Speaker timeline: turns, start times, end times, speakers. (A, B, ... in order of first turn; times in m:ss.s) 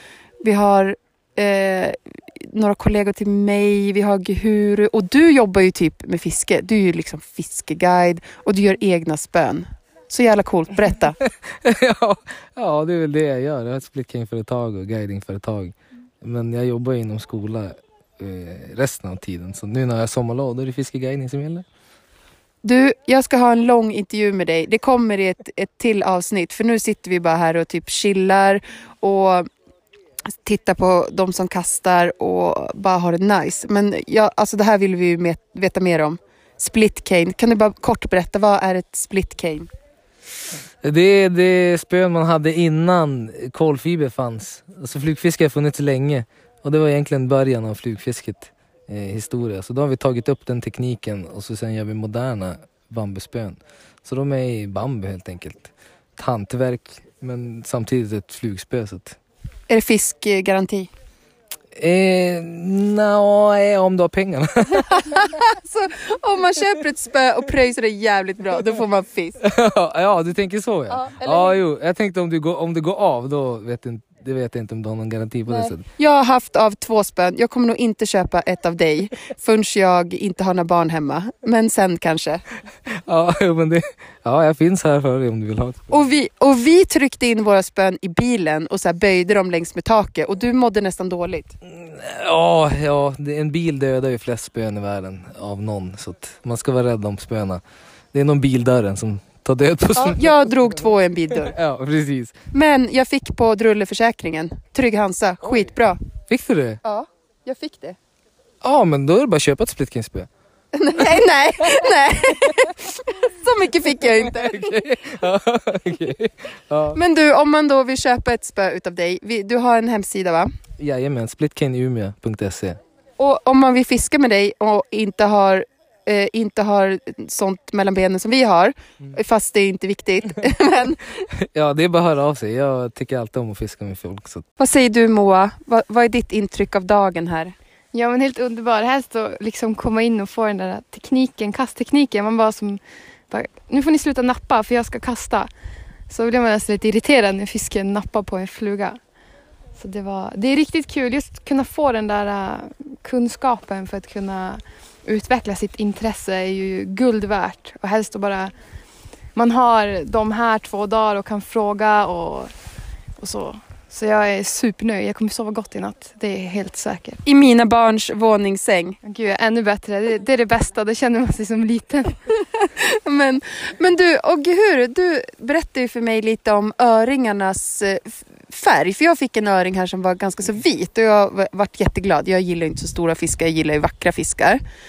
0:00.4-0:11.2 A
0:11.5-0:21.7 B
0:22.6-0:29.5 A
0:30.4-0:39.7 A
0:40.8-0:59.2 B
0:59.7-1:00.9 A
1:01.8-1:05.3 B
1:04.9-1:09.4 A
1:09.4-1:15.8 B
1:10.9-1:11.6 A
1:15.5-1:22.4 A
1:22.9-1:25.9 B
1:25.9-1:31.6 A
1:31.7-1:37.6 B
1:38.1-1:40.3 B
1:40.0-1:41.5 A
1:41.4-1:42.4 B
1:42.5-1:46.0 A
1:46.3-1:46.8 B
1:46.8-1:48.0 A
1:48.6-1:50.3 B
1:50.7-1:54.8 A
1:54.2-1:57.0 B
1:56.9-2:00.5 A
2:00.8-2:02.8 B
2:03.2-2:11.2 A
2:11.3-2:14.4 B
2:14.6-2:17.6 A
2:17.9-2:25.5 C
2:26.1-2:29.0 C
2:29.8-2:38.5 C
2:39.4-2:42.5 C
2:43.2-2:47.2 C
2:47.2-2:49.0 A
2:49.0-2:52.2 C
2:52.6-3:04.6 A